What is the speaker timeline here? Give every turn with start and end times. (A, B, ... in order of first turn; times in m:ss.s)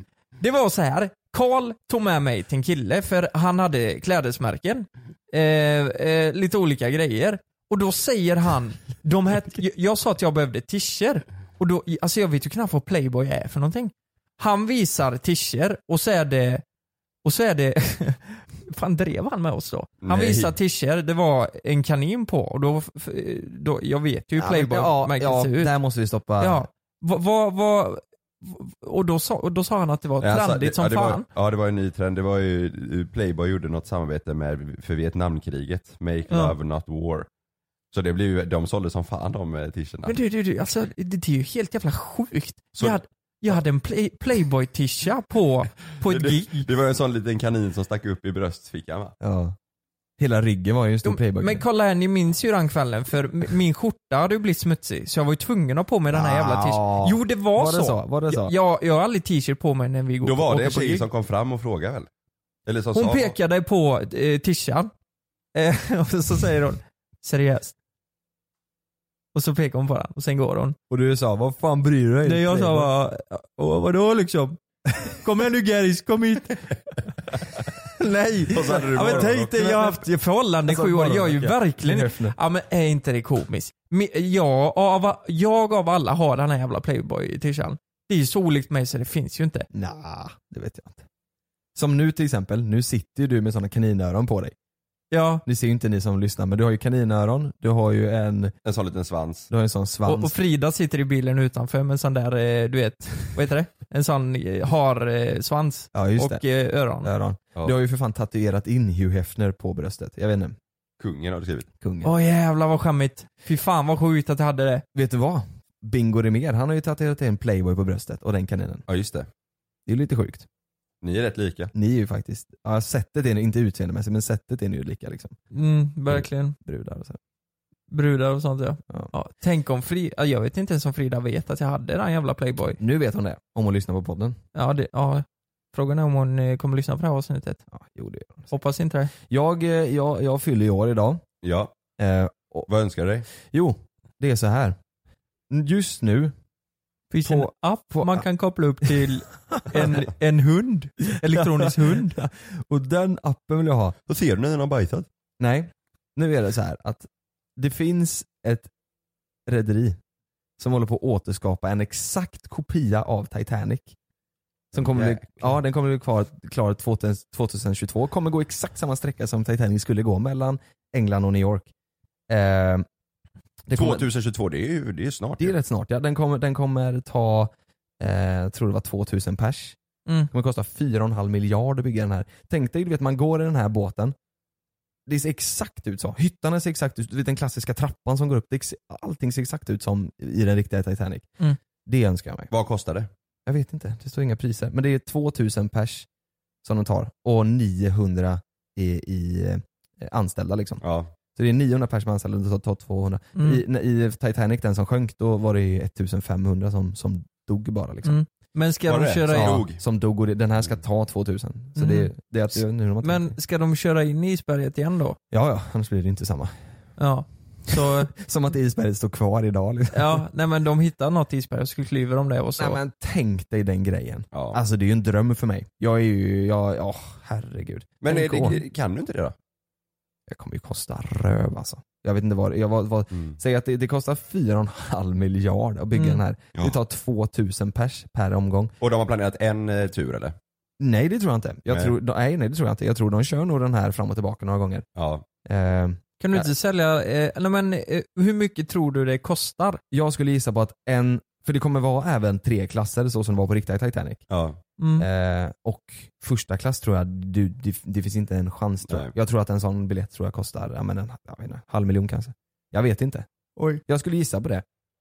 0:00.4-0:16.6 A
0:17.2-0:25.7 A
0:20.0-0:20.5 B
0:24.4-0:26.7 C
0:26.4-0:31.2 A
0:30.2-0:37.3 B
0:36.3-0:36.5 A
0:37.9-0:40.1 B
0:40.0-0:46.7 A
0:46.1-0:49.1 B
0:49.2-0:49.5 C
0:50.2-0:51.6 C
0:51.0-1:01.0 A
0:56.1-0:58.5 C
1:00.2-1:02.1 B
1:02.6-1:03.3 B
1:02.9-1:04.9 A
1:05.5-1:07.7 A
1:09.3-1:10.8 A
1:10.9-1:12.9 C
1:12.2-1:14.6 A
1:15.2-1:16.6 A
1:18.0-1:29.7 A
1:18.5-1:19.9 B
1:20.6-1:22.4 C
1:29.7-1:31.0 C
1:31.7-1:34.5 C
1:35.1-1:35.4 A
1:35.4-1:38.5 C
1:38.6-1:39.5 B
1:39.5-1:40.3 C
1:40.0-1:47.1 A
1:45.9-1:46.4 C
1:47.0-1:50.6 C
1:51.0-1:51.7 B
1:51.8-1:52.1 C
1:52.0-1:54.8 A
1:54.9-1:58.8 C
1:58.9-1:59.3 B
1:59.8-2:00.4 C
2:01.0-2:01.7 B
2:01.7-2:05.4 C
2:05.5-2:06.6 A
2:06.1-2:07.2 C
2:07.9-2:12.8 A
2:12.8-2:14.4 C
2:14.5-2:17.6 A
2:17.7-2:18.5 C
2:18.5-2:19.1 A
2:19.2-2:21.2 C
2:21.4-2:21.7 B
2:22.0-2:22.7 C
2:22.7-2:23.2 B
2:23.5-2:24.8 C
2:25.5-2:26.3 C
2:27.1-2:32.2 A
2:27.2-2:28.2 C
2:29.5-2:29.9 C
2:31.1-2:33.9 C
2:34.1-2:35.0 B
2:35.4-2:38.7 C
2:39.5-2:40.0 C
2:40.6-2:43.9 C
2:44.7-2:51.7 C
2:44.7-2:45.5 B
2:52.3-2:52.8 C
2:53.7-2:54.1 C
2:53.7-2:55.5 B
2:55.4-2:59.8 C
3:00.3-3:04.1 C
3:05.1-3:11.3 C
3:11.8-3:12.5 C
3:12.5-3:13.1 B
3:13.4-3:16.0 C
3:16.6-3:20.8 C
3:20.8-3:21.1 B
3:21.3-3:28.2 C
3:23.3-3:23.6 A
3:28.0-3:29.6 A
3:28.9-3:29.8 B
3:29.3-3:33.3 C
3:31.8-3:32.1 A
3:33.0-3:35.2 A
3:35.3-3:36.5 C
3:37.0-3:38.1 A
3:37.7-3:40.2 C
3:39.9-3:42.8 A
3:42.6-3:48.6 C
3:44.3-3:44.6 B
3:48.0-3:49.3 B
3:50.3-3:58.7 C
3:55.9-3:56.2 A
3:58.8-4:00.3 B
4:00.8-4:04.8 C
4:05.0-4:05.2 B
4:05.4-4:06.4 C
4:06.2-4:09.8 A
4:09.9-4:14.2 C
4:14.3-4:14.6 B
4:14.8-4:15.0 A
4:15.0-4:23.2 C
4:23.8-4:24.6 C